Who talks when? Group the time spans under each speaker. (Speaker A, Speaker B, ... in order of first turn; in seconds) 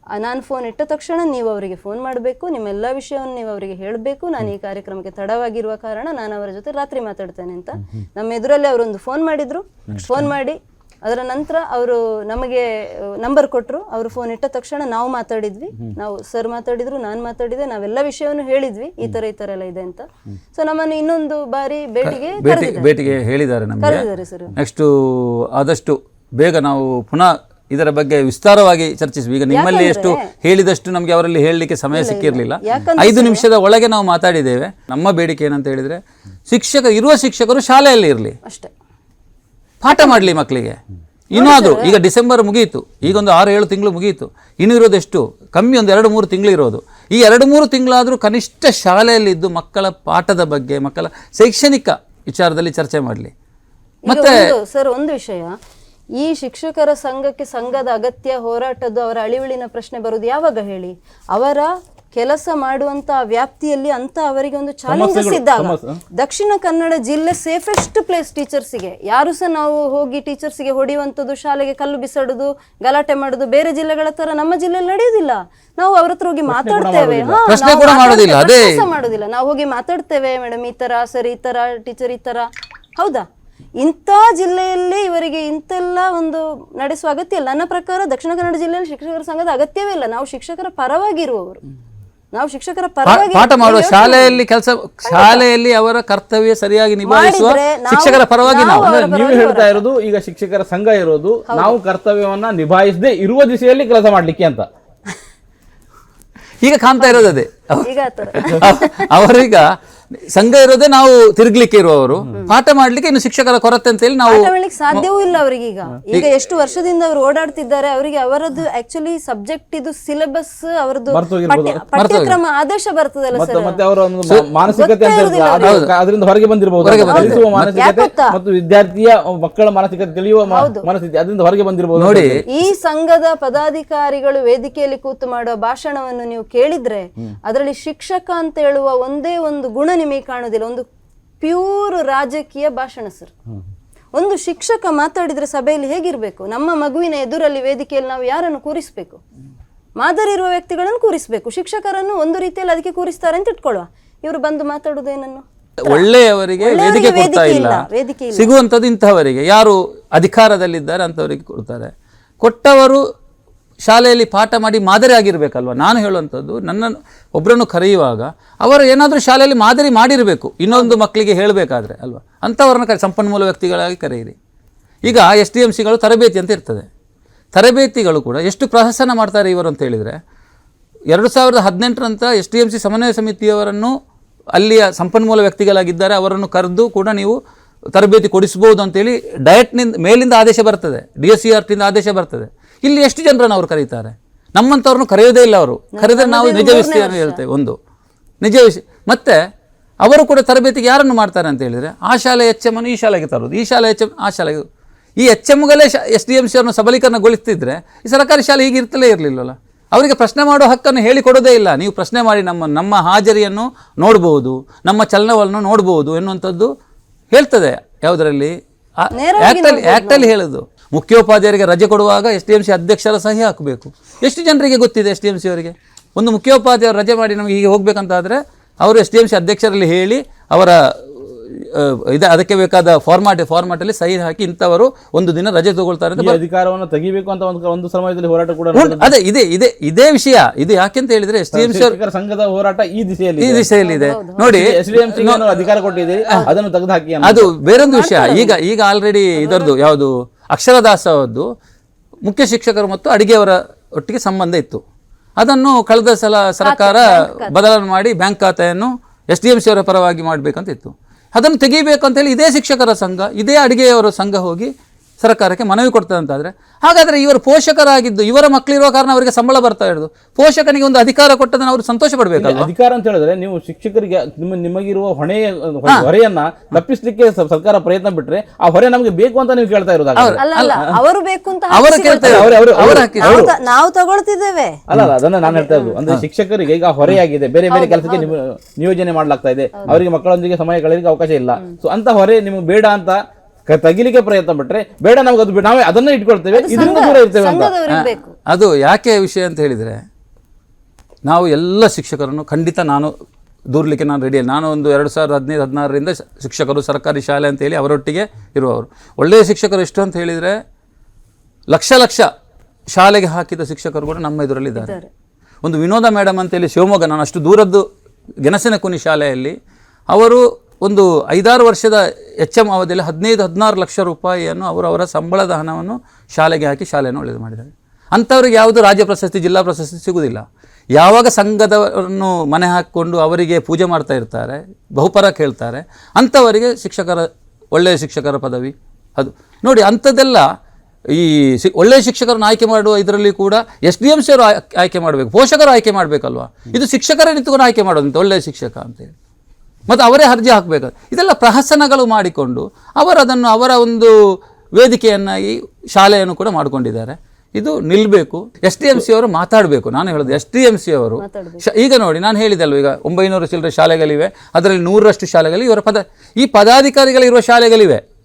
Speaker A: 0.1-22.9, 23.8-24.5, 29.5-30.3, 31.9-33.5, 38.5-38.7, 41.3-41.9, 54.1-55.5, 56.2-83.3, 83.8-91.6, 92.3-94.4, 95.1-95.4, 97.1-99.8, 101.5-101.8, 107.8-109.1, 114.3-123.8, 124.7-125.8, 127.1-128.4, 130.5-130.9, 132.5-140.9, 141.4-143.3, 144.1-149.2, 150.0-156.1, 156.6-158.5, 196.0-197.4, 219.1-220.3, 243.8-244.5, 247.7-248.6, 249.4-249.7, 256.6-257.6, 280.4-284.8, 285.5-286.0, 287.7-288.4, 296.6-298.4, 314.8-315.1, 361.2-361.6
Speaker B: 9.9-10.2, 64.9-66.0, 76.5-77.4, 98.7-104.7, 121.1-121.8, 123.3-132.4, 236.2-239.1, 241.5-243.7, 244.4-247.5, 272.4-280.9, 282.2-283.5, 284.9-297.8
Speaker C: 22.1-38.4, 39.8-40.8, 41.3-53.3, 54.1-54.5, 77.5-78.8, 93.0-98.9, 106.6-115.0, 122.0-122.4, 126.8-127.7, 132.0-132.4, 155.8-163.0, 163.8-174.3, 175.0-176.9, 177.5-180.2, 181.1-183.9, 184.5-187.4, 187.9-197.8, 198.4-199.4, 200.0-204.7, 205.2-216.7, 217.3-236.4, 238.7-242.0, 243.4-245.4, 247.2-251.5, 252.2-254.8, 255.4-272.7, 280.2-280.8, 281.7-283.5, 297.9-300.0, 301.2-303.1, 303.7-310.6, 311.7-312.3, 312.9-315.0, 315.6-317.9, 318.4-319.6, 320.1-340.5, 341.1-349.1, 349.9-354.1, 354.7-368.0